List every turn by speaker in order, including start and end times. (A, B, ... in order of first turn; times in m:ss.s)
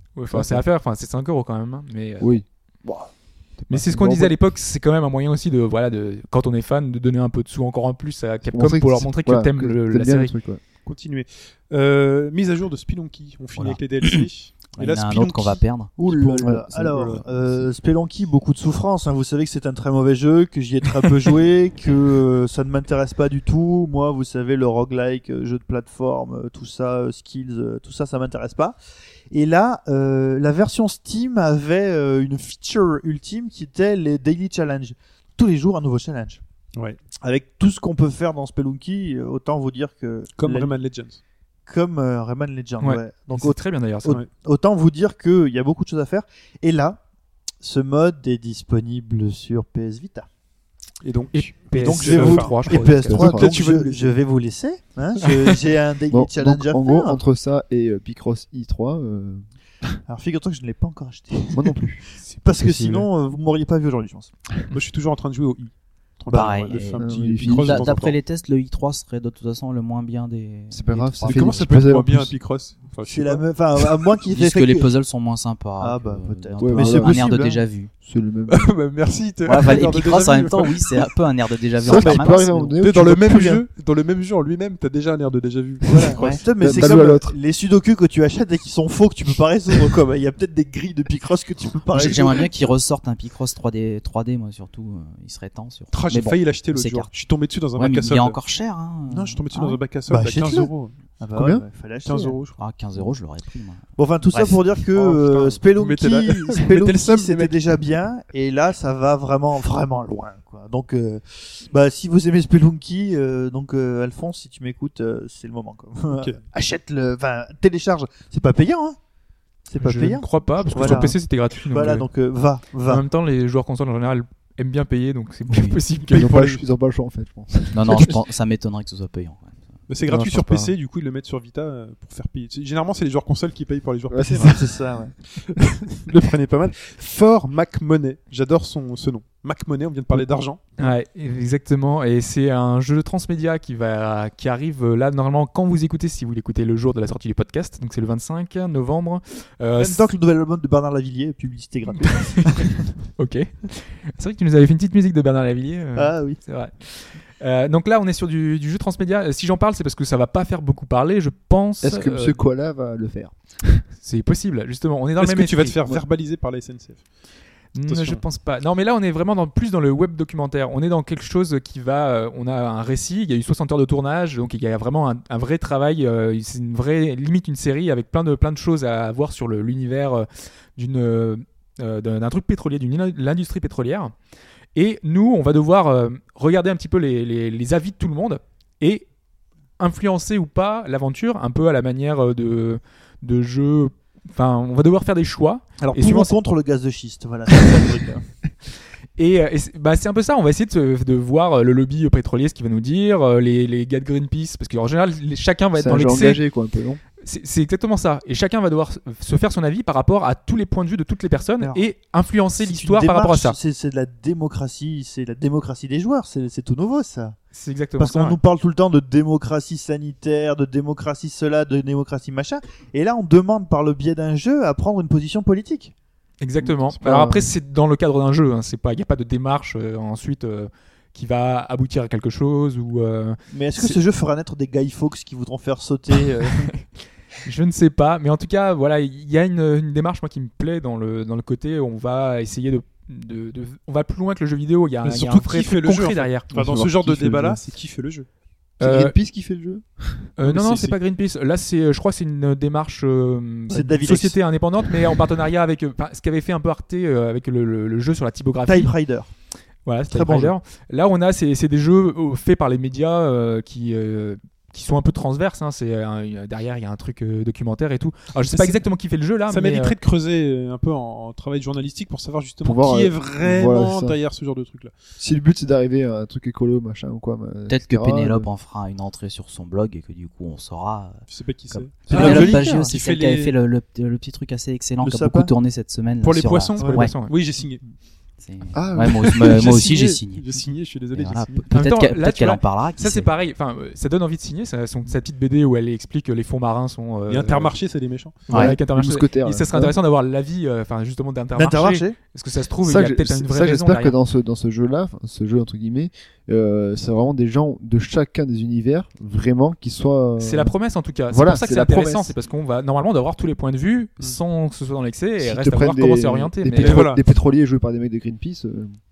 0:00.2-0:02.3 A
0:00.3-0:00.6 B
0:02.2-0:04.4 B
0:03.7-0:10.3 A
0:08.4-0:10.6 B
0:10.8-0:15.6 C
0:13.6-0:15.9 D
0:16.0-0:28.8 E
0:16.1-0:17.7 B
0:29.3-0:36.4 E
0:36.7-0:37.0 C
0:37.2-0:40.7 E
0:40.4-0:41.2 C
0:41.7-0:47.0 E
0:42.8-0:44.2 A
0:47.6-0:50.3 E
0:51.0-0:54.2 C
0:51.3-0:53.3 A
0:51.8-0:57.2 E
0:53.1-0:53.6 B
0:56.1-1:00.0 B
1:00.1-1:01.8 E
1:01.5-1:02.0 B
1:02.4-1:03.0 A
1:02.4-1:04.3 E
1:04.7-1:08.2 C
1:06.3-1:11.8 D
1:06.3-1:06.8 E
1:07.0-1:08.0 B
1:10.7-1:12.3 B
1:11.2-1:13.4 C
1:13.0-1:14.9 E
1:14.3-1:17.9 D
1:15.8-1:17.6 E
1:16.6-1:17.3 B
1:18.0-1:18.7 B
1:18.5-1:21.1 C
1:19.4-1:22.7 D
1:21.8-1:23.6 B
1:21.9-1:22.3 E
1:22.8-1:27.0 C
1:26.0-1:32.5 E
1:26.1-1:27.4 B
1:26.2-1:26.4 D
1:31.9-1:37.1 D
1:35.9-1:38.4 C
1:37.8-1:39.8 D
1:39.1-1:40.9 C
1:40.1-1:42.4 E
1:41.3-1:41.6 B
1:42.0-1:42.6 C
1:42.6-1:44.6 D
1:44.0-1:59.0 E
1:44.9-1:47.6 C
1:56.1-1:56.4 C
1:59.7-2:03.0 E
1:59.8-2:02.1 A
2:02.9-2:06.5 A
2:05.5-2:05.8 D
2:06.1-2:08.2 B
2:06.2-2:06.6 C
2:07.7-2:09.6 D
2:09.9-2:14.6 C
2:10.1-2:10.7 A
2:14.1-2:14.7 B
2:14.3-2:15.1 E
2:15.5-2:20.9 C
2:20.8-2:30.1 A
2:29.8-2:32.7 E
2:33.2-2:42.4 A
2:36.0-2:36.4 E
2:41.8-2:43.8 B
2:44.0-2:45.8 A
2:45.2-2:47.0 C
2:47.7-3:04.1 A
2:47.9-2:48.2 C
3:04.7-3:09.0 A
3:09.8-3:16.3 A
3:15.8-3:18.2 E
3:19.2-3:26.4 A
3:25.7-3:27.0 B
3:27.2-3:33.6 A
3:31.6-3:31.9 E
3:32.6-3:37.4 E
3:37.5-3:38.4 A
3:38.0-3:45.9 E
3:46.4-3:54.0 A
3:46.6-3:47.5 B
3:53.5-3:56.7 E
3:57.4-4:06.5 A
4:05.0-4:08.3 C
4:06.5-4:07.6 B
4:08.8-4:09.1 A
4:08.8-4:10.3 B
4:10.4-4:18.9 A
4:10.4-4:11.0 C
4:13.7-4:14.4 E
4:18.6-4:19.3 E
4:19.8-4:30.0 A
4:20.1-4:20.5 E
4:29.5-4:34.9 C
4:32.6-4:34.2 B
4:35.2-4:38.5 B
4:37.7-4:47.1 D
4:41.3-4:43.5 C
4:42.1-4:42.9 E
4:45.0-4:45.5 E
4:46.2-4:47.8 C
4:46.9-4:47.3 A
4:48.4-4:50.5 D
4:48.7-4:49.4 B
4:49.3-4:51.7 C
4:51.1-4:53.3 D
4:51.7-4:57.8 A
4:57.3-4:58.5 C
4:58.5-4:59.9 B
4:58.5-5:04.2 A
5:01.5-5:02.2 E
5:02.8-5:10.7 B
5:10.4-5:17.1 A
5:11.3-5:12.3 B
5:15.4-5:19.0 B
5:16.8-5:17.2 C